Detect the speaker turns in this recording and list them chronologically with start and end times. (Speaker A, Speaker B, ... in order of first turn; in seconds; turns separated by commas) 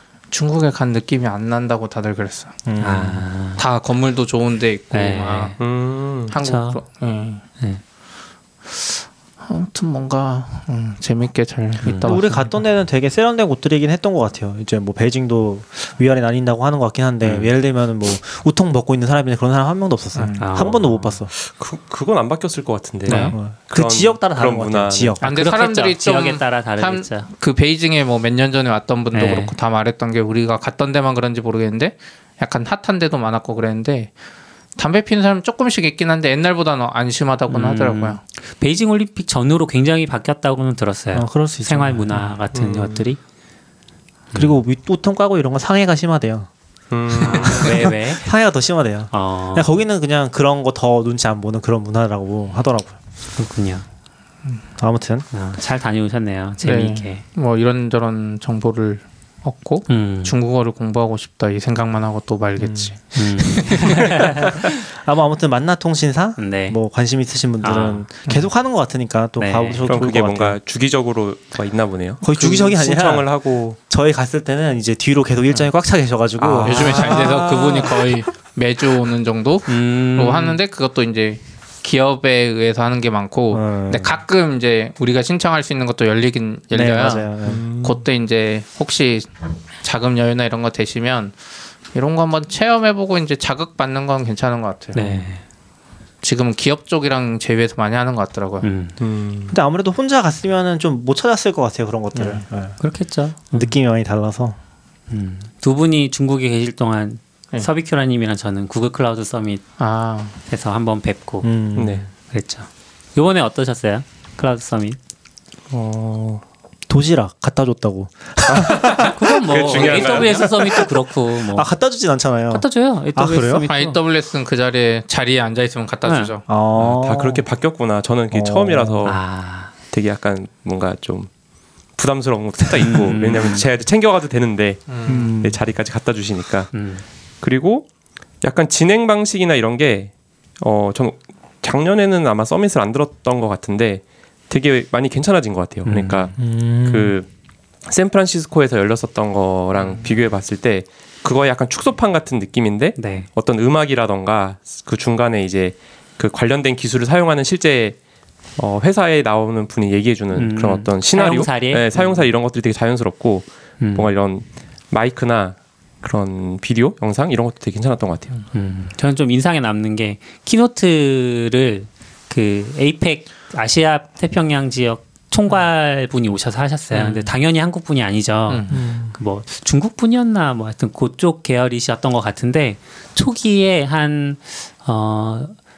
Speaker A: 0.3-2.5, Speaker B: 2.6-3.2, Speaker C: 2.8-3.6, Speaker A: 3.6-5.5, Speaker C: 4.9-5.6, Speaker D: 5.6-6.3, Speaker A: 6.3-7.4, Speaker C: 6.3-6.8, Speaker A: 8.7-12.5, Speaker C: 11.8-12.2, Speaker B: 12.0-21.3, Speaker C: 17.2-17.5, Speaker A: 20.1-20.7, Speaker C: 20.4-21.1, Speaker D: 21.3-25.1, Speaker C: 23.1-23.4, Speaker B: 23.1-25.2, Speaker A: 25.2-34.1, Speaker C: 25.2-27.3, Speaker C: 29.1-29.5, Speaker A: 34.8-38.2, Speaker C: 37.5-43.2, Speaker B: 41.1-42.3, Speaker D: 42.5-43.0, Speaker C: 44.3-44.6, Speaker B: 44.3-46.5, Speaker D: 46.9-47.9, Speaker B: 47.2-53.0, Speaker C: 47.2-48.2, Speaker C: 49.1-49.8, Speaker C: 53.4-53.8, Speaker B: 54.8-55.2, Speaker C: 55.3-57.2, Speaker A: 56.6-64.2, Speaker C: 59.9-60.3, Speaker B: 62.6-62.9, Speaker C: 63.1-64.5, Speaker B: 63.8-70.6, Speaker C: 66.4-66.8, Speaker C: 67.6-68.0, Speaker C: 69.4-69.9, Speaker D: 69.9-73.8, Speaker B: 72.2-77.9, Speaker D: 76.4-77.9, Speaker A: 76.6-89.3, Speaker C: 79.7-80.6, Speaker B: 83.5-84.2, Speaker B: 86.7-87.6, Speaker D: 87.4-88.0, Speaker A: 89.8-91.3, Speaker A: 91.9-95.3, Speaker C: 94.9-95.4, Speaker A: 96.2-98.7, Speaker C: 98.6-99.0, Speaker D: 99.0-99.5, Speaker B: 99.5-102.8, Speaker A: 102.1-102.4, Speaker C: 102.8-103.6, Speaker B: 103.5-104.6, Speaker C: 105.1-109.6, Speaker A: 109.8-110.4, Speaker C: 110.5-111.5, Speaker B: 111.4-112.0, Speaker D: 111.8-112.0, Speaker C: 112.3-115.0, Speaker D: 115.7-116.4, Speaker B: 116.9-120.9, Speaker D: 118.5-120.8, Speaker C: 119.0-121.7, Speaker B: 121.4-123.7, Speaker C: 122.5-124.0, Speaker A: 123.7-126.5, Speaker C: 126.0-126.3, Speaker B: 126.5-127.4, Speaker D: 126.8-129.2, Speaker B: 128.3-129.1, Speaker C: 129.0-129.7, Speaker D: 129.8-131.3, Speaker D: 131.9-136.7, Speaker C: 132.8-133.7, Speaker A: 134.9-135.3, Speaker B: 135.1-135.6, Speaker C: 136.7-137.0, Speaker D: 137.4-137.9, Speaker D: 138.4-147.3, Speaker C: 145.8-146.3, Speaker B: 146.4-147.1, Speaker D: 147.8-158.0, Speaker C: 153.0-153.3, Speaker D: 158.6-168.3, Speaker C: 160.3-162.2, Speaker C: 163.8-164.1, Speaker C: 168.5-185.6, Speaker A: 176.9-177.3, Speaker A: 178.5-178.8, Speaker B: 178.7-179.1